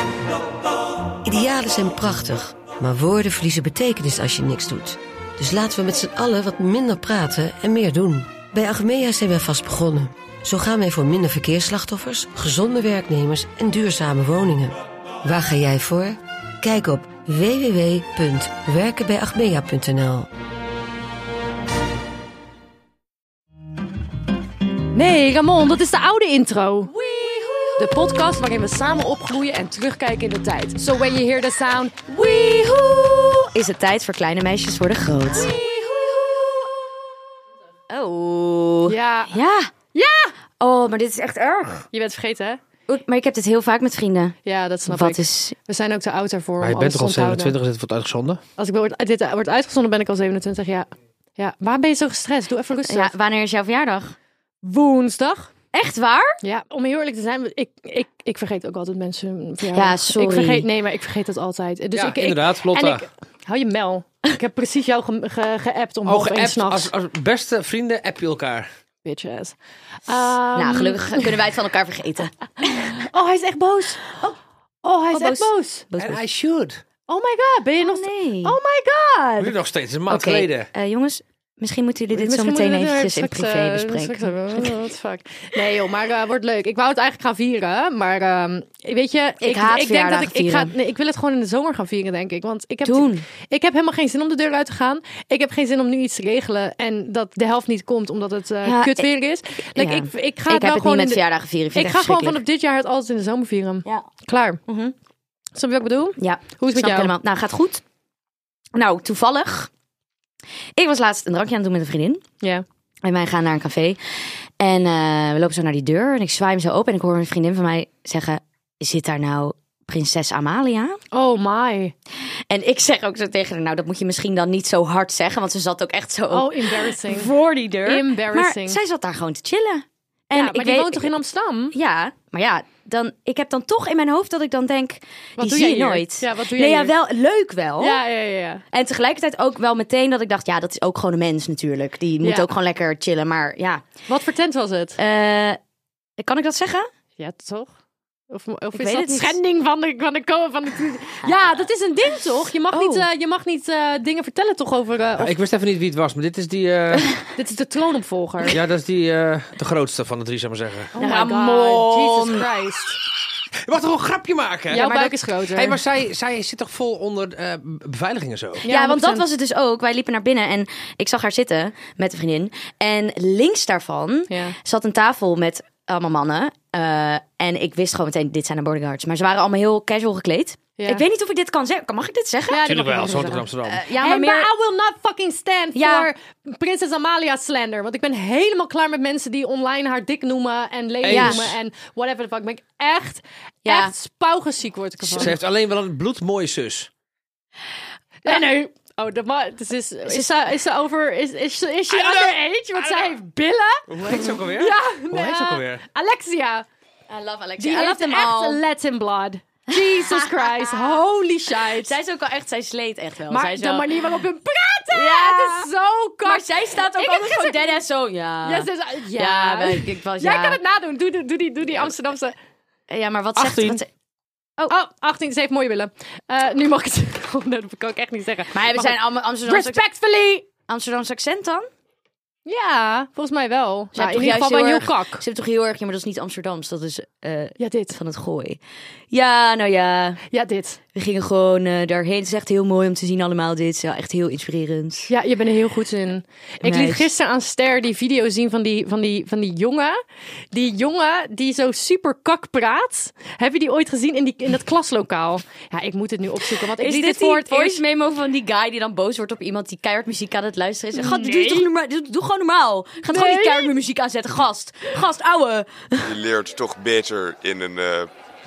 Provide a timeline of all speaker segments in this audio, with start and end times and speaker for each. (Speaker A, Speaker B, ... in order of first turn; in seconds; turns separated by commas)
Speaker A: 1.2-20.3, Speaker B: 24.9-33.5, Speaker C: 27.0-28.0, Speaker C: 33.5-35.6, Speaker B: 35.3-36.8, Speaker C: 37.9-39.7, Speaker B: 38.9-39.4, Speaker B: 39.9-40.3, Speaker C: 40.6-41.8, Speaker B: 41.9-42.6, Speaker C: 42.9-44.4, Speaker B: 44.5-47.6, Speaker C: 44.9-45.5, Speaker D: 46.6-48.4, Speaker B: 48.6-53.1, Speaker C: 52.8-54.1, Speaker B: 54.6-55.5, Speaker C: 55.7-56.4, Speaker B: 56.4-66.9, Speaker C: 59.7-60.7, Speaker D: 61.9-63.1, Speaker D: 66.1-68.7, Speaker B: 69.0-69.6, Speaker B: 70.1-71.4, Speaker C: 70.5-72.9, Speaker B: 72.6-74.2, Speaker B: 74.8-75.9, Speaker C: 75.1-76.2, Speaker D: 76.0-76.8, Speaker B: 77.1-79.6, Speaker C: 77.8-78.6, Speaker D: 79.4-80.7, Speaker C: 80.1-84.7, Speaker B: 82.1-101.2, Speaker C: 89.4-90.7, Speaker C: 92.8-93.2, Speaker C: 98.6-99.1, Speaker C: 99.8-102.4, Speaker B: 101.7-104.6, Speaker C: 104.7-105.0, Speaker B: 105.5-107.1, Speaker C: 106.2-107.8, Speaker C: 108.8-109.7, Speaker C: 110.8-112.2, Speaker C: 113.0-114.0, Speaker C: 114.6-121.0, Speaker B: 121.1-121.9, Speaker C: 122.5-131.2, Speaker B: 126.3-127.3, Speaker B: 127.8-128.8, Speaker B: 130.3-131.7, Speaker C: 131.7-138.0, Speaker B: 135.4-136.9, Speaker B: 137.8-138.6, Speaker C: 138.7-143.9, Speaker B: 142.2-142.5, Speaker B: 144.1-145.0, Speaker C: 145.0-145.6, Speaker C: 146.2-146.9, Speaker B: 147.2-147.7, Speaker B: 148.3-155.4, Speaker C: 148.7-149.4, Speaker C: 152.7-153.1, Speaker D: 155.2-157.2, Speaker B: 157.4-158.6, Speaker D: 158.5-161.0, Speaker B: 160.9-163.0, Speaker C: 161.0-162.5, Speaker D: 163.7-168.7, Speaker B: 164.7-165.8, Speaker C: 164.7-165.1, Speaker B: 168.6-169.3, Speaker C: 168.7-184.5, Speaker B: 174.3-174.6, Speaker B: 180.8-181.0, Speaker B: 182.5-195.4, Speaker D: 182.6-183.8, Speaker C: 185.8-186.1, Speaker D: 191.0-191.6, Speaker C: 191.1-191.4, Speaker C: 193.7-193.9, Speaker D: 195.2-196.9, Speaker B: 198.2-206.7, Speaker C: 200.1-200.3, Speaker D: 203.9-205.8, Speaker C: 207.1-208.6, Speaker B: 207.6-212.0, Speaker C: 209.7-211.0, Speaker C: 211.7-214.1, Speaker B: 213.3-217.8, Speaker C: 214.9-215.7, Speaker C: 216.2-220.6, Speaker B: 218.4-222.3, Speaker C: 222.9-223.9, Speaker D: 223.4-223.8, Speaker B: 224.7-230.5, Speaker C: 228.5-229.8, Speaker C: 230.7-231.7, Speaker B: 232.5-235.2, Speaker C: 233.9-238.6, Speaker B: 237.6-238.0, Speaker C: 239.1-240.2, Speaker B: 240.3-240.8, Speaker C: 240.9-245.1, Speaker B: 245.1-250.0, Speaker C: 246.6-247.1, Speaker B: 250.5-257.8, Speaker C: 256.8-266.1, Speaker B: 260.9-261.7, Speaker B: 263.1-263.8, Speaker E: 266.0-268.1